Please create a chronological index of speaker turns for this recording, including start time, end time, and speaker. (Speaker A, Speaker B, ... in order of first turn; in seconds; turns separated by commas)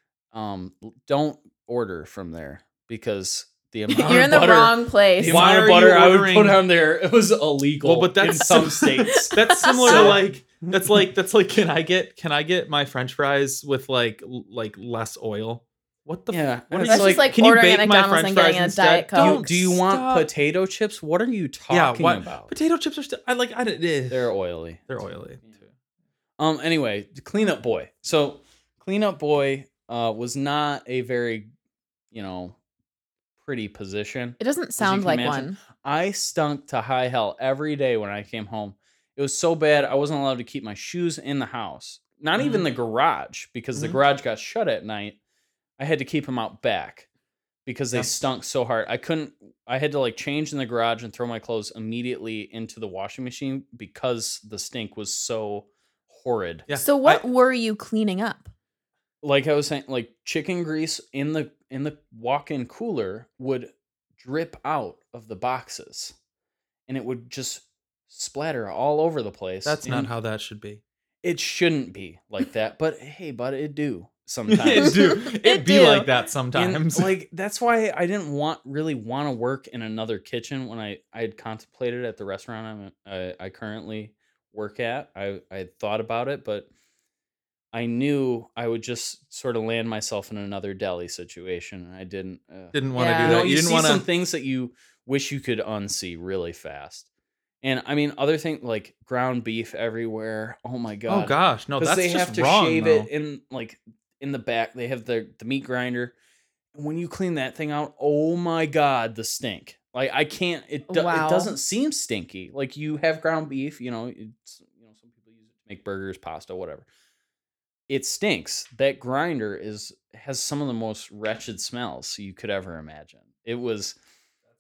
Speaker A: 0.3-10.2, Speaker B: 3.9-5.5, Speaker C: 5.2-6.6, Speaker C: 7.8-20.3, Speaker B: 9.2-10.2, Speaker A: 16.3-17.3, Speaker B: 16.9-19.4, Speaker A: 19.2-22.5, Speaker C: 21.7-24.3, Speaker A: 24.1-24.9, Speaker C: 24.9-25.7, Speaker A: 26.4-31.5, Speaker A: 32.1-32.6, Speaker A: 33.4-45.2, Speaker B: 34.4-35.6, Speaker C: 42.4-42.7, Speaker A: 45.8-47.1, Speaker A: 47.6-56.7, Speaker C: 56.7-57.2, Speaker B: 56.7-58.5, Speaker A: 59.2-66.2, Speaker A: 66.9-70.1, Speaker C: 69.7-70.8, Speaker A: 71.2-75.0, Speaker C: 74.5-77.1, Speaker B: 74.8-76.1, Speaker A: 76.5-86.7, Speaker A: 87.7-97.1, Speaker C: 92.7-94.0, Speaker B: 93.0-93.4, Speaker A: 97.6-106.2, Speaker C: 101.1-103.1, Speaker A: 106.8-116.9, Speaker B: 110.9-111.5, Speaker A: 117.9-124.0